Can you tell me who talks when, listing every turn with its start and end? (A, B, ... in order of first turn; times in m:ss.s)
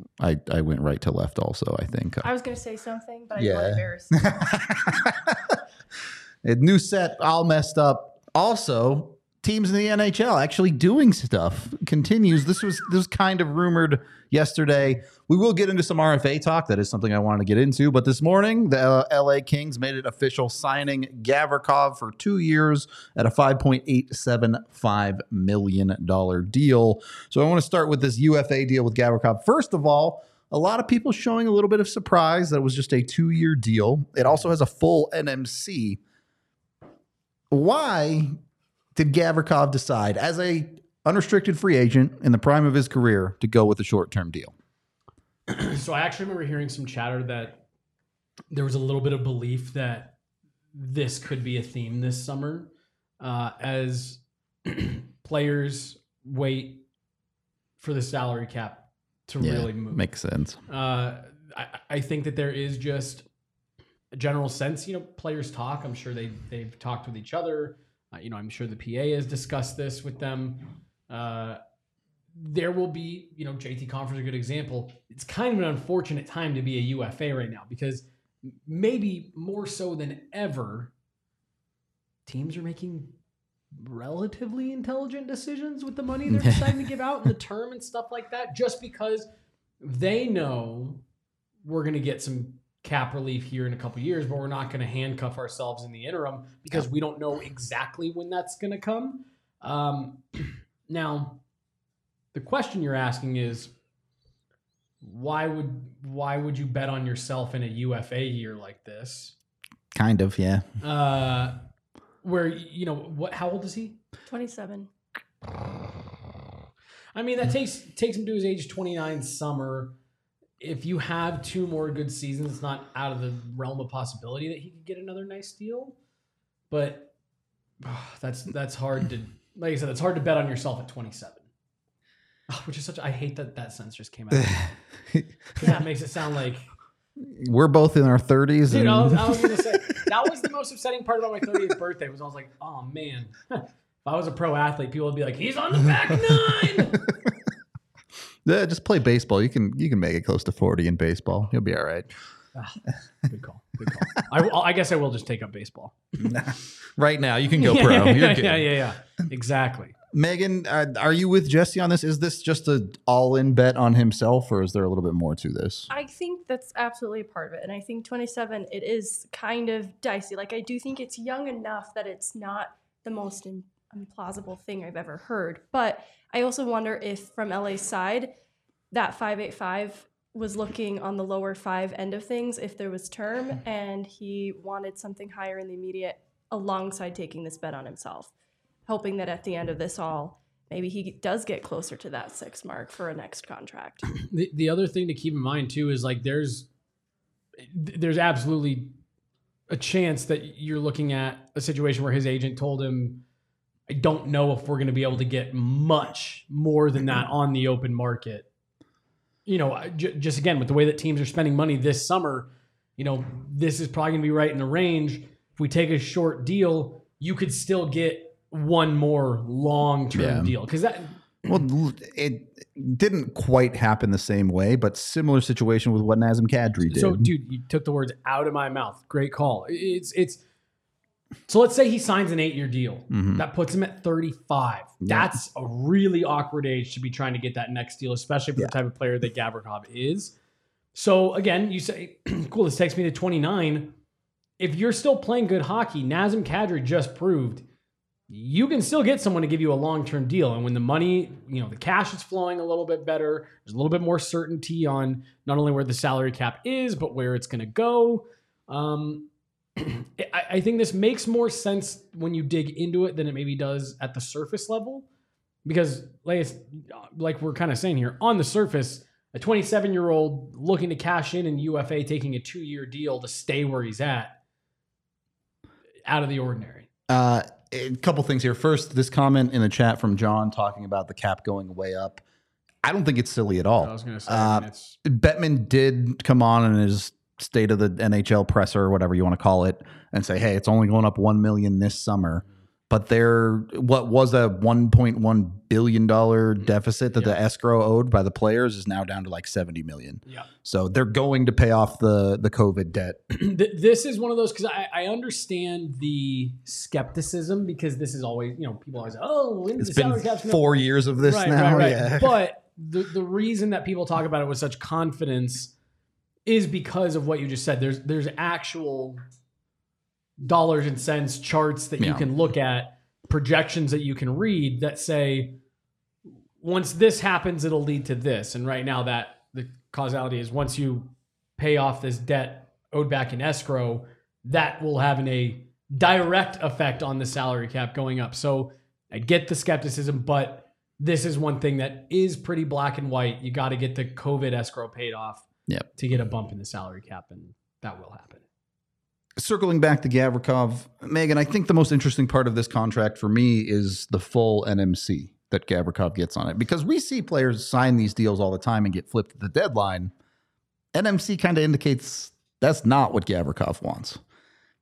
0:00.2-0:02.3 A
0:02.2-0:04.6 B
0:03.4-0:05.6 A
0:06.4-0:36.0 A
0:37.5-0:38.3 A
0:39.0-0:44.5 A
0:45.5-0:47.6 C
0:48.5-0:50.1 C
0:50.7-0:56.8 C
0:57.8-1:00.0 C
0:59.4-1:00.6 A
1:00.7-1:03.2 C
1:04.1-1:11.6 C
1:12.3-1:20.9 C
1:22.3-1:23.2 C
1:23.7-1:29.3 C
1:26.3-1:26.8 A
1:29.8-1:31.0 C
1:31.6-1:41.4 C
1:42.3-1:43.7 C
1:45.0-1:49.3 C
1:49.9-1:50.7 A
1:50.8-1:51.6 C
1:52.2-1:54.0 C
1:54.3-1:54.9 B
1:57.1-1:59.9 C
2:00.6-2:06.0 C
2:06.7-2:07.1 C
2:07.8-2:11.4 C
2:12.5-2:14.6 C
2:14.3-2:15.8 A
2:15.6-2:16.7 C
2:17.2-2:20.1 A
2:18.7-2:27.0 C
2:27.0-2:27.3 A
2:28.4-2:32.1 A
2:32.5-2:36.0 C
2:36.2-2:38.7 A
2:37.6-2:40.0 C
2:40.1-2:45.9 A
2:45.9-2:58.3 B
2:58.9-3:08.3 B
3:08.9-3:14.1 B
3:14.1-3:16.7 C
3:17.6-3:19.0 C
3:19.7-3:23.2 C
3:23.9-3:28.5 C
3:29.4-3:41.6 C
3:40.1-3:40.5 A
3:41.5-3:47.3 A
3:46.9-3:50.4 C
3:51.5-4:00.3 C
3:53.1-3:53.4 A
3:55.0-3:55.3 A
4:00.9-4:03.9 C
4:04.6-4:07.6 C
4:08.3-4:25.0 C
4:25.6-4:34.4 C
4:36.0-4:36.9 C
4:37.1-4:42.2 A
4:42.8-5:03.2 A
4:43.8-4:45.0 C
5:03.3-5:10.6 C
5:09.8-5:12.4 A
5:11.2-5:15.7 C
5:16.4-5:19.2 C
5:20.4-5:25.6 C
5:22.0-5:22.3 A
5:26.6-5:48.4 C
5:49.4-6:00.1 A
6:00.9-6:04.2 A